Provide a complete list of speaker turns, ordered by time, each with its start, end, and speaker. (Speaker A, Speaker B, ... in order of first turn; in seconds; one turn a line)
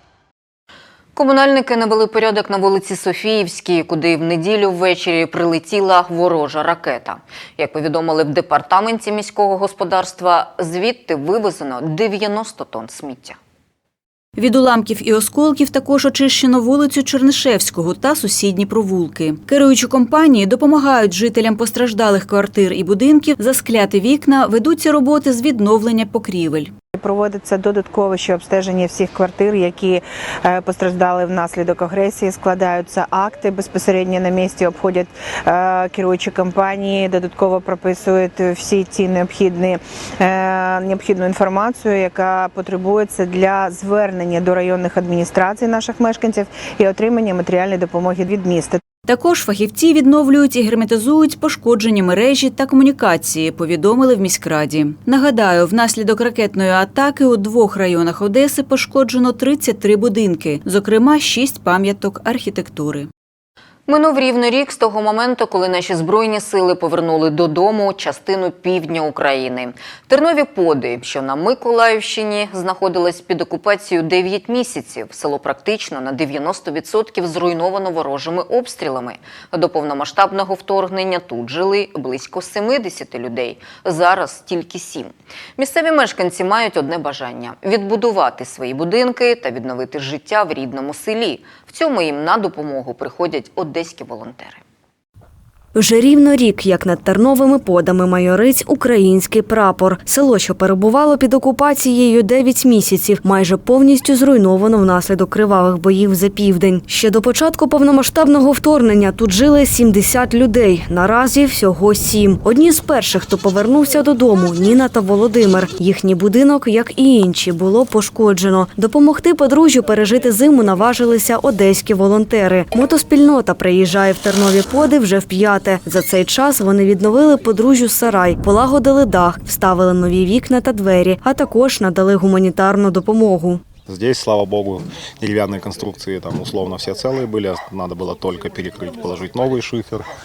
Speaker A: 1.1-13.4
Speaker B: 14.4-26.7
Speaker C: 27.0-48.8
Speaker B: 49.0-63.1
Speaker A: 63.9-94.6
Speaker D: 95.8-133.6
Speaker E: 133.9-140.1